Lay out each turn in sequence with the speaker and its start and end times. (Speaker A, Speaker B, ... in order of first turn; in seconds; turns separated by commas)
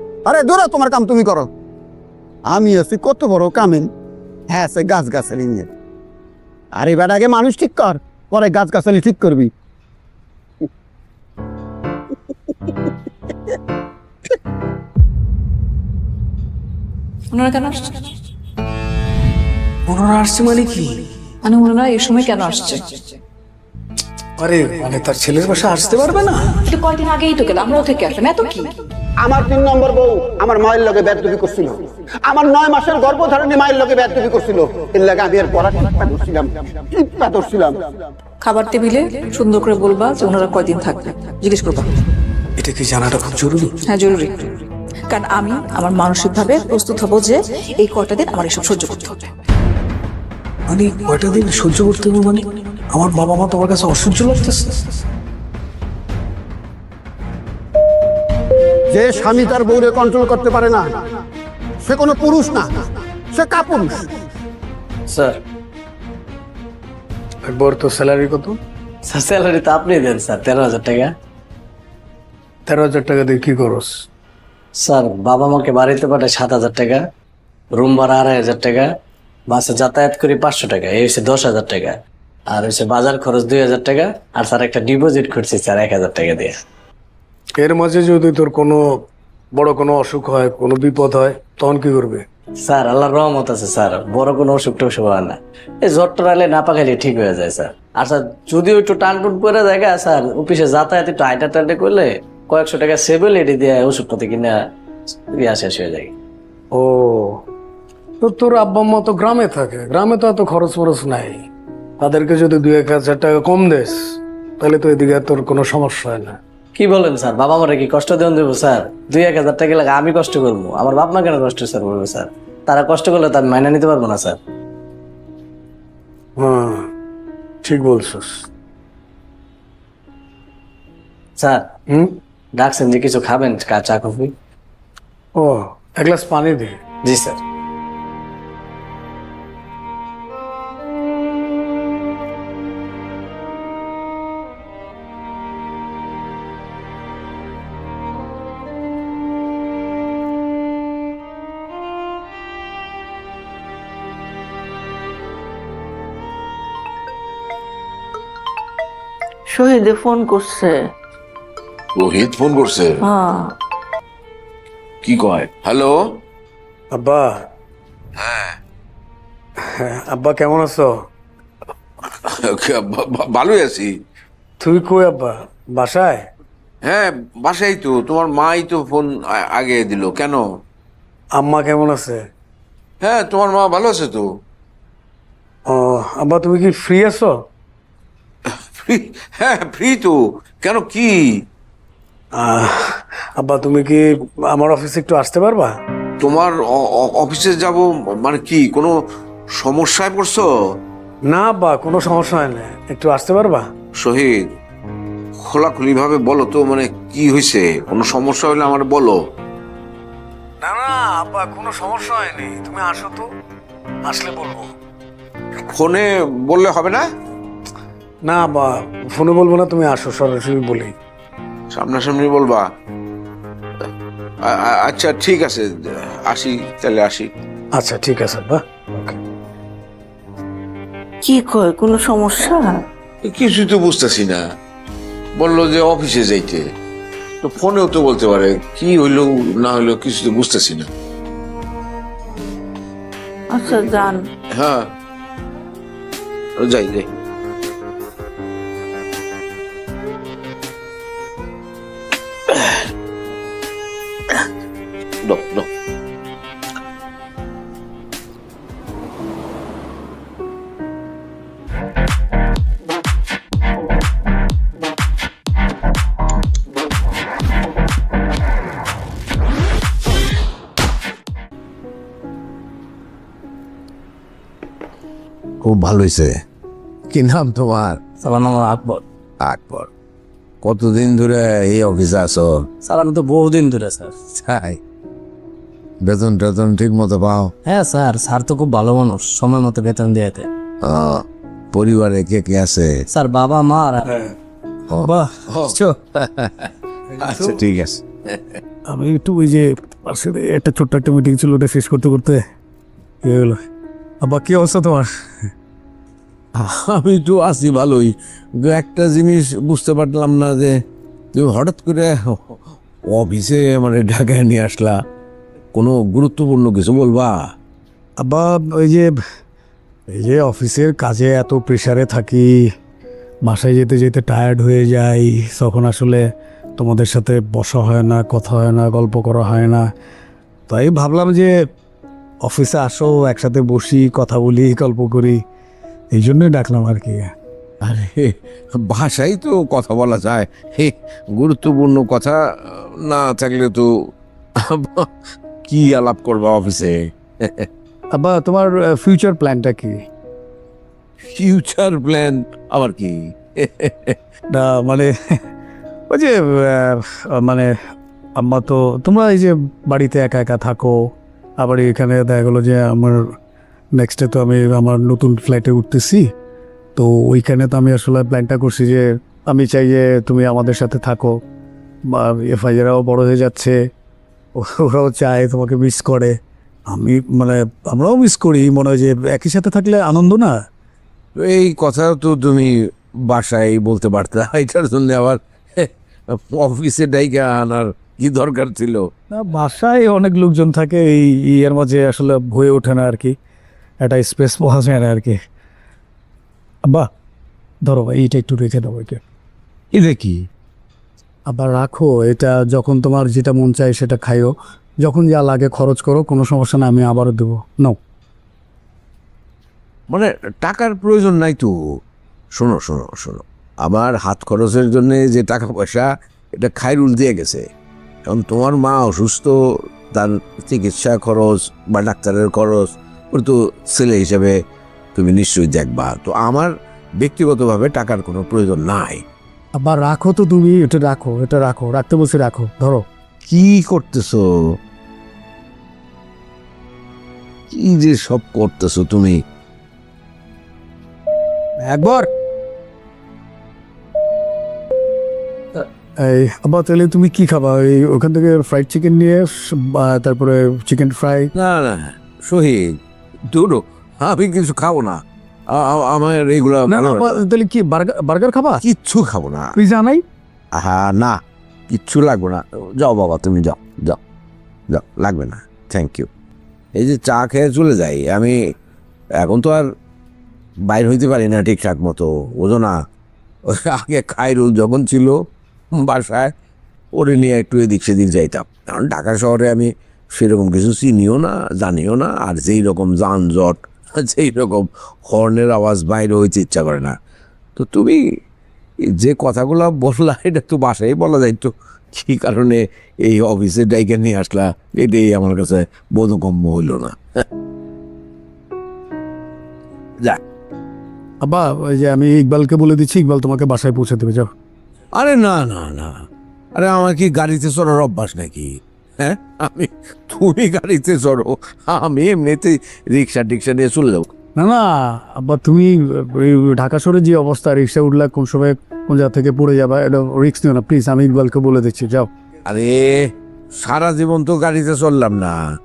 Speaker A: 0.3-1.5, Speaker A: 2.5-3.9, Speaker A: 4.5-5.7, Speaker A: 6.8-9.5, Speaker B: 21.4-23.0, Speaker C: 24.4-26.3, Speaker B: 26.6-28.8, Speaker A: 29.2-37.9, Speaker B: 38.4-41.9, Speaker D: 42.8-43.6, Speaker B: 43.8-44.5, Speaker B: 45.1-49.3, Speaker A: 58.9-61.0, Speaker A: 61.9-62.7, Speaker A: 63.3-64.1, Speaker E: 65.1-65.4, Speaker C: 67.5-68.6, Speaker E: 69.1-71.1, Speaker C: 72.7-73.9, Speaker E: 74.8-77.0, Speaker E: 77.8-78.9, Speaker E: 79.5-82.0, Speaker E: 82.5-86.6, Speaker C: 87.6-88.8, Speaker C: 89.5-92.2, Speaker E: 92.7-104.6, Speaker E: 105.3-106.1, Speaker C: 106.7-107.4, Speaker C: 108.2-111.4, Speaker C: 112.0-114.0, Speaker C: 114.6-116.4, Speaker E: 116.8-124.4, Speaker C: 126.4-126.9, Speaker C: 127.6-128.4, Speaker E: 131.4-131.7, Speaker E: 132.6-134.3, Speaker C: 135.4-136.8, Speaker E: 137.1-137.4, Speaker F: 159.5-160.7, Speaker G: 162.0-162.9, Speaker F: 163.1-163.5, Speaker G: 165.0-165.9, Speaker C: 166.9-167.4, Speaker G: 168.2-168.5, Speaker C: 169.8-170.9, Speaker G: 172.3-173.9, Speaker C: 174.6-176.3, Speaker G: 176.9-180.4, Speaker C: 181.4-182.2, Speaker G: 183.0-184.2, Speaker C: 185.7-187.3, Speaker G: 188.9-190.1, Speaker G: 190.6-191.1, Speaker C: 192.4-195.7, Speaker G: 196.2-198.9, Speaker G: 199.6-200.4, Speaker C: 201.3-203.7, Speaker G: 204.0-204.3, Speaker G: 205.5-209.1, Speaker C: 210.6-213.3, Speaker C: 214.1-214.7, Speaker G: 215.8-216.9, Speaker C: 218.3-220.9, Speaker G: 221.8-222.6, Speaker G: 224.6-225.6, Speaker G: 226.6-227.3, Speaker C: 227.8-229.2, Speaker F: 231.2-232.8, Speaker G: 233.2-234.4, Speaker G: 235.4-236.6, Speaker G: 237.4-240.9, Speaker F: 243.5-244.2, Speaker G: 244.6-244.8, Speaker G: 246.7-247.0, Speaker G: 255.2-255.7, Speaker G: 275.6-276.4, Speaker G: 277.1-278.0, Speaker H: 278.2-279.0, Speaker G: 279.4-279.9, Speaker G: 280.6-282.7, Speaker H: 282.8-284.2, Speaker G: 284.3-284.8, Speaker G: 286.0-287.5, Speaker H: 287.7-290.5, Speaker G: 290.8-292.9, Speaker H: 293.1-294.0, Speaker G: 294.9-298.6, Speaker D: 295.0-295.3, Speaker H: 295.7-296.0, Speaker D: 298.9-302.4, Speaker D: 303.2-303.6, Speaker D: 304.2-305.1, Speaker G: 306.6-310.8, Speaker G: 311.3-312.6, Speaker G: 313.1-314.9, Speaker G: 315.7-317.4, Speaker D: 318.2-319.1, Speaker D: 320.1-322.5, Speaker D: 323.5-326.2, Speaker D: 326.8-329.9, Speaker D: 330.7-331.5, Speaker D: 332.4-335.4, Speaker D: 336.1-337.3, Speaker G: 337.8-343.9, Speaker G: 344.6-345.1, Speaker G: 345.7-347.7, Speaker D: 348.1-350.0, Speaker G: 351.2-354.2, Speaker D: 354.5-355.1, Speaker D: 356.1-357.7, Speaker D: 358.4-361.0, Speaker D: 361.6-363.2, Speaker D: 364.0-366.3, Speaker D: 367.0-371.3, Speaker D: 372.1-373.8, Speaker D: 374.6-376.4, Speaker D: 376.9-380.5, Speaker G: 381.4-389.1, Speaker D: 389.3-393.3, Speaker D: 394.0-395.4, Speaker D: 397.9-399.2, Speaker G: 399.9-400.5, Speaker D: 401.5-408.0, Speaker G: 410.1-411.7, Speaker G: 412.6-417.6, Speaker G: 418.3-419.6, Speaker G: 420.1-424.6, Speaker G: 425.1-429.2, Speaker D: 429.8-433.1, Speaker G: 433.5-434.8, Speaker G: 437.7-439.4, Speaker D: 441.8-442.3, Speaker D: 445.8-451.5, Speaker G: 451.6-453.0, Speaker G: 453.5-457.3, Speaker D: 456.9-458.8, Speaker G: 458.8-459.7, Speaker D: 459.7-460.2, Speaker G: 460.8-464.2, Speaker G: 464.9-466.3, Speaker G: 467.0-468.6, Speaker G: 469.4-469.9, Speaker G: 470.9-473.0, Speaker G: 473.7-475.3, Speaker G: 475.9-476.5, Speaker G: 477.1-487.2, Speaker G: 487.8-488.2, Speaker G: 489.1-497.4, Speaker D: 501.4-504.5, Speaker G: 505.1-506.2, Speaker G: 506.8-514.3, Speaker D: 514.6-522.3, Speaker G: 522.7-525.6